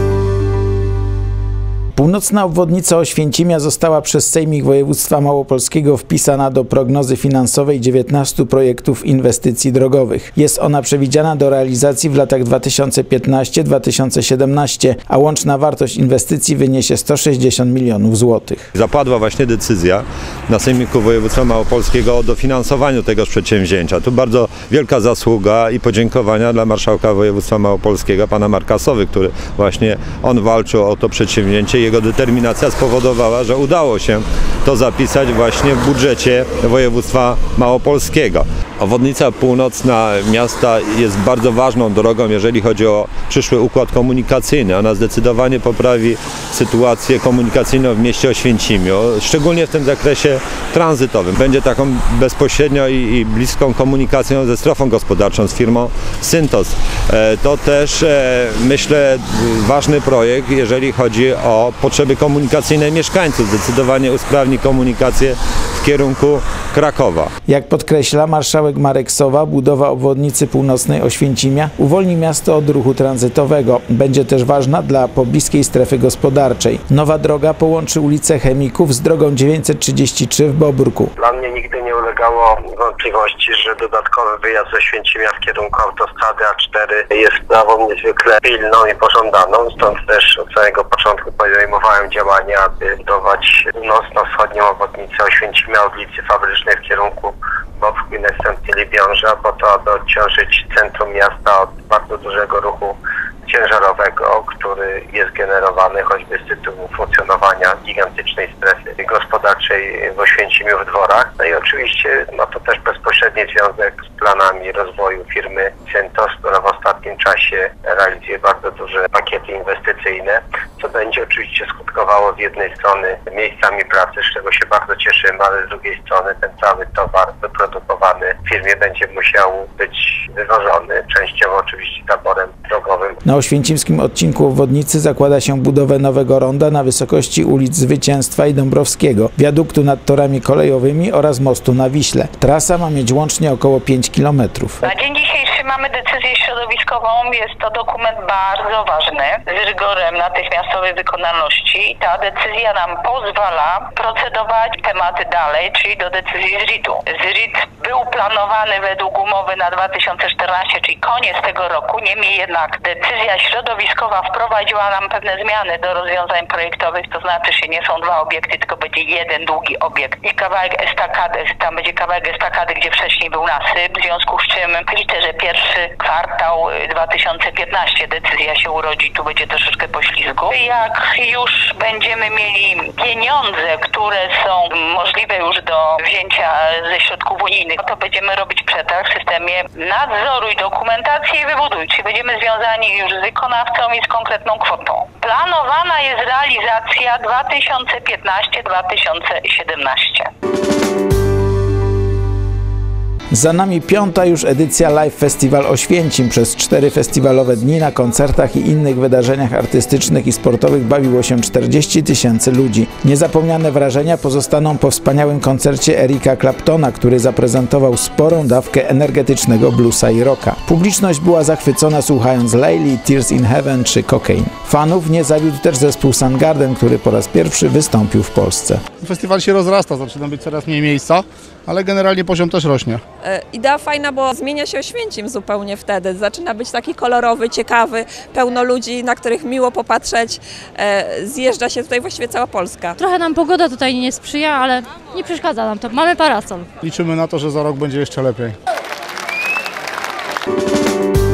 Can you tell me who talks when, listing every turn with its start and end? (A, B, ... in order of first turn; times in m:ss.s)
0:02.0-0:18.7 A
0:18.7-1:07.3 B
1:07.5-1:21.1 A
1:21.2-2:13.2 C
2:13.2-2:24.8 A
2:24.8-3:20.3 D
3:23.3-3:48.8 A
3:49.0-3:53.0 E
3:53.2-4:03.0 F
4:03.0-4:06.7 G
4:06.8-4:08.6 E